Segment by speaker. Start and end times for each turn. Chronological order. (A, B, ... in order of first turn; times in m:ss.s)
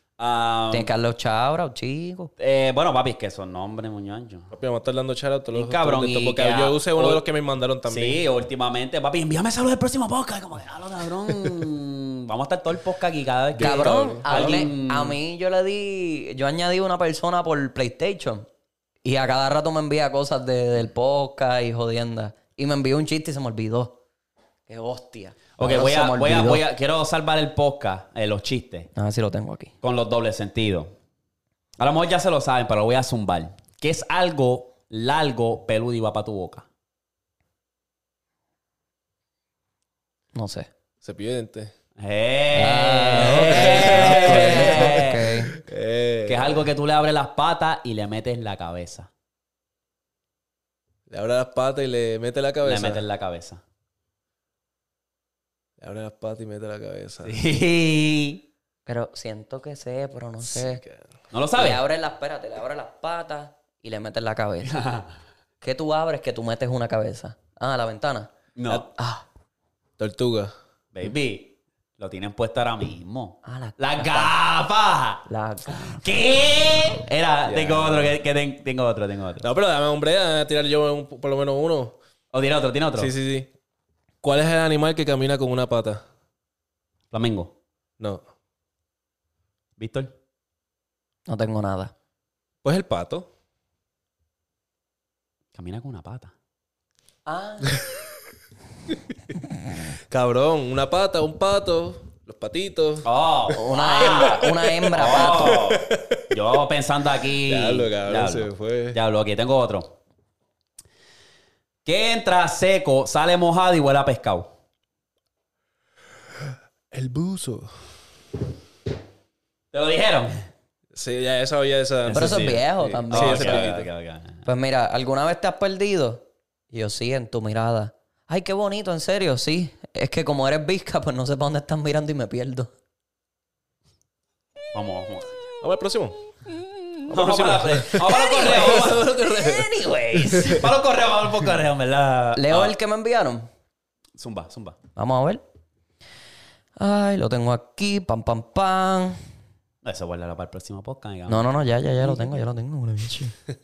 0:00.2-0:00.9 A
0:00.7-0:02.3 B
0:02.4-0:04.5 A
0:04.5-0:08.2 C
0:05.5-0:07.2 A
0:07.8-0:15.2 A
0:13.6-0:14.6 C
0:13.6-0:18.5 B
0:19.0-0:24.0 B
0:24.7-0:26.6 B
0:25.6-0:28.9 A
0:28.9-0:29.7 B
0:29.8-0:30.9 A
0:31.8-0:36.6 A
0:40.3-0:40.7 B
0:41.0-0:41.7 C
0:42.0-0:45.3 A
0:42.5-0:45.5 B
0:43.2-0:46.6 C
0:46.2-0:49.1 A
0:51.1-0:53.0 C
0:52.6-0:53.6 A
0:55.8-0:57.4 C
0:57.2-0:58.4 A
0:58.8-1:00.8 B
1:00.4-1:01.0 C
1:01.3-1:01.8 A
1:01.6-1:04.8 B
1:04.6-1:05.1 A
1:05.6-1:09.2 B
1:08.6-1:08.8 A
1:10.0-1:10.5 C
1:10.9-1:19.4 A
1:13.4-1:14.3 B
1:15.2-1:16.0 B
1:17.5-1:18.1 C
1:19.4-1:22.0 C
1:22.3-1:23.1 A
1:23.0-1:23.5 C
1:24.2-1:26.0 C
1:27.1-1:27.5 A
1:29.8-1:30.1 A
1:31.3-1:31.9 B
1:32.6-1:33.3 C
1:35.5-1:36.3 A
1:37.2-1:37.8 B
1:40.1-1:43.1 C
1:43.0-1:49.9 A
1:43.5-1:45.6 B
1:44.0-1:46.2 C
1:47.4-1:49.0 C
1:51.8-1:54.5 A
1:56.9-1:57.7 C
1:59.7-2:00.5 A
2:00.9-2:03.9 C
2:02.0-2:04.4 A
2:02.1-2:03.7 B
2:04.4-2:12.7 B
2:14.7-2:15.4 A
2:15.6-2:16.2 C
2:17.1-2:20.6 C
2:17.1-2:22.7 A
2:18.1-2:18.9 B
2:22.4-2:23.5 B
2:24.2-2:24.8 A
2:25.0-2:25.4 B
2:26.8-2:29.2 B
2:29.8-2:31.4 A
2:31.3-2:33.3 B